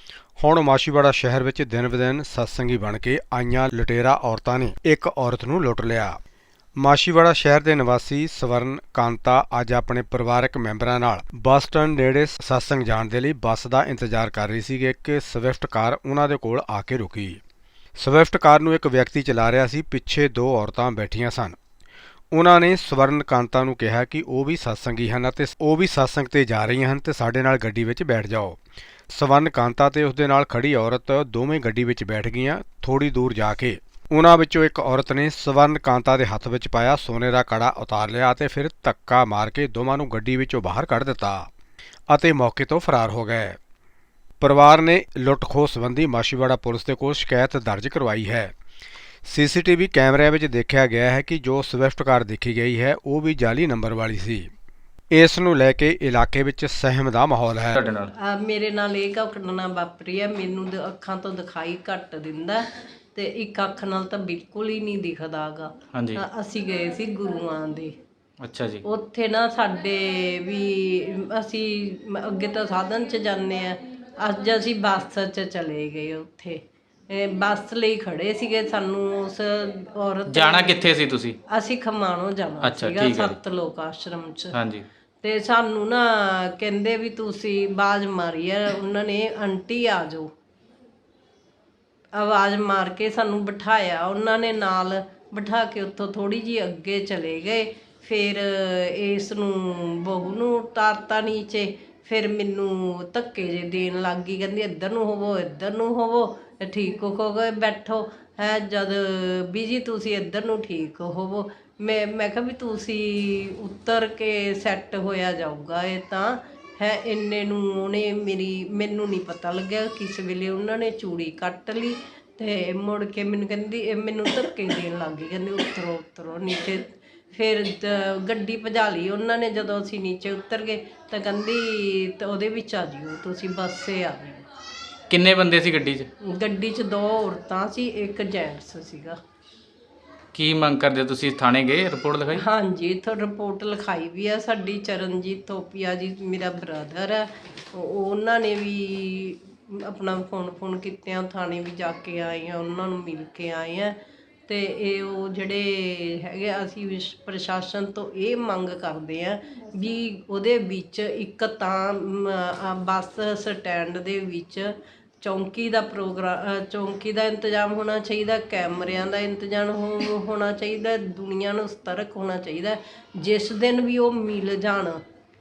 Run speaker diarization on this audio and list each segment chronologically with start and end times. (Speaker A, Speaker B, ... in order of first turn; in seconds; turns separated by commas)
Speaker A: 0.4-6.2, Speaker A: 6.8-17.4, Speaker A: 18.0-21.6, Speaker A: 22.3-28.6, Speaker A: 29.1-41.5, Speaker A: 42.1-43.6, Speaker A: 44.4-48.5, Speaker A: 49.3-54.5, Speaker A: 55.1-57.8, Speaker B: 57.8-58.1, Speaker C: 58.2-67.9, Speaker B: 65.9-66.2, Speaker B: 68.4-68.8, Speaker C: 68.8-80.9, Speaker B: 80.3-81.4, Speaker C: 81.5-84.6, Speaker B: 82.6-83.4, Speaker B: 84.5-84.8, Speaker C: 85.2-90.3, Speaker C: 92.1-134.4, Speaker B: 135.1-136.1, Speaker C: 136.2-139.2, Speaker B: 140.3-142.4, Speaker C: 142.3-175.0